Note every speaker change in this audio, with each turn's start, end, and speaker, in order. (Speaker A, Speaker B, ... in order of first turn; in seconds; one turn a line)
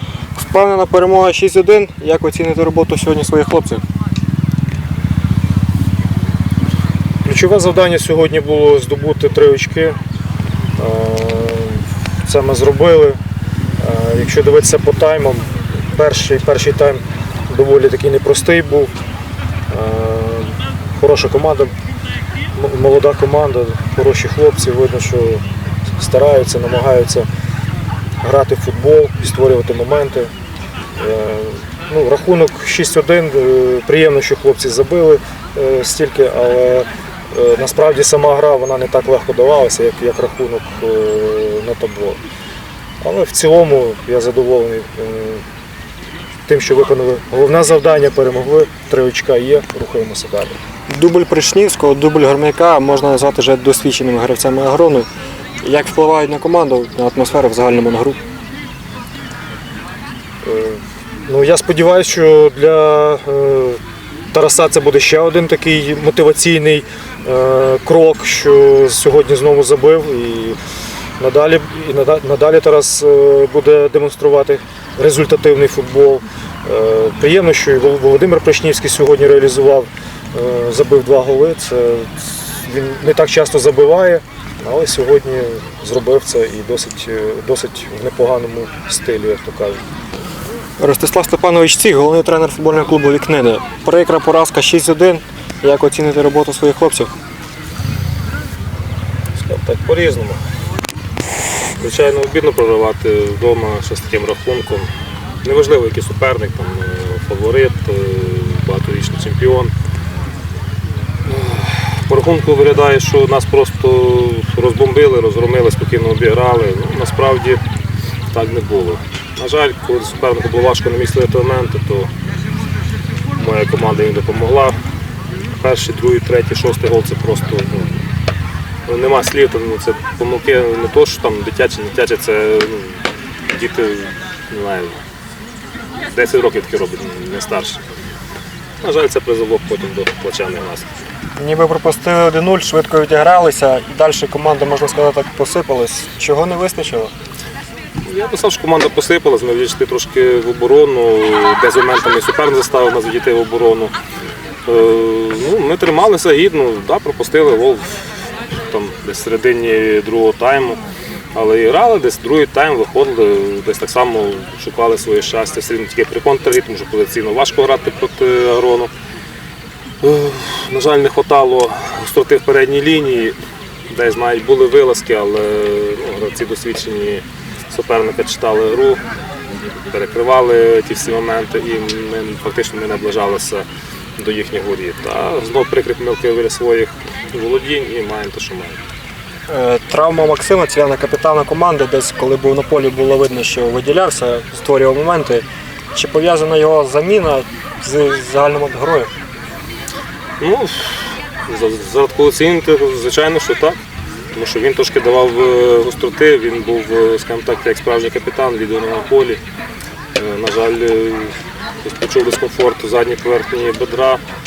Speaker A: 0.3-3.8
Speaker B: 7.2-10.0
Speaker B: 10.8-13.2
Speaker B: 13.8-18.9
Speaker B: 19.7-21.7
Speaker B: 22.5-27.3
Speaker B: 28.2-30.3
Speaker B: 31.0-42.2
Speaker B: 43.0-45.4
Speaker B: 46.5-50.6
Speaker A: 50.9-55.1
Speaker A: 55.6-58.2
Speaker B: 60.4-63.8
Speaker B: 64.3-70.6
Speaker B: 71.2-89.8
Speaker A: 90.8-97.1
Speaker C: 99.4-100.4
Speaker C: 101.8-104.9
Speaker C: 105.4-109.7
Speaker C: 111.3-117.6
Speaker C: 118.3-122.1
Speaker C: 123.4-124.8
Speaker C: 125.5-128.1
Speaker C: 128.9-135.0
Speaker C: 136.1-137.8
Speaker C: 138.8-140.9
Speaker A: 141.4-147.1
Speaker C: 148.0-153.9
Speaker C: 154.7-158.1
Speaker C: 158.7-160.8
Speaker C: 161.3-168.9
Speaker C: 170.0-173.4
Speaker C: 173.9-179.1
Speaker C: 179.6-188.8
Speaker A: 189.5-199.1
Speaker C: 200.4-203.8
Speaker C: 204.3-209.4
Speaker C: 210.2-214.2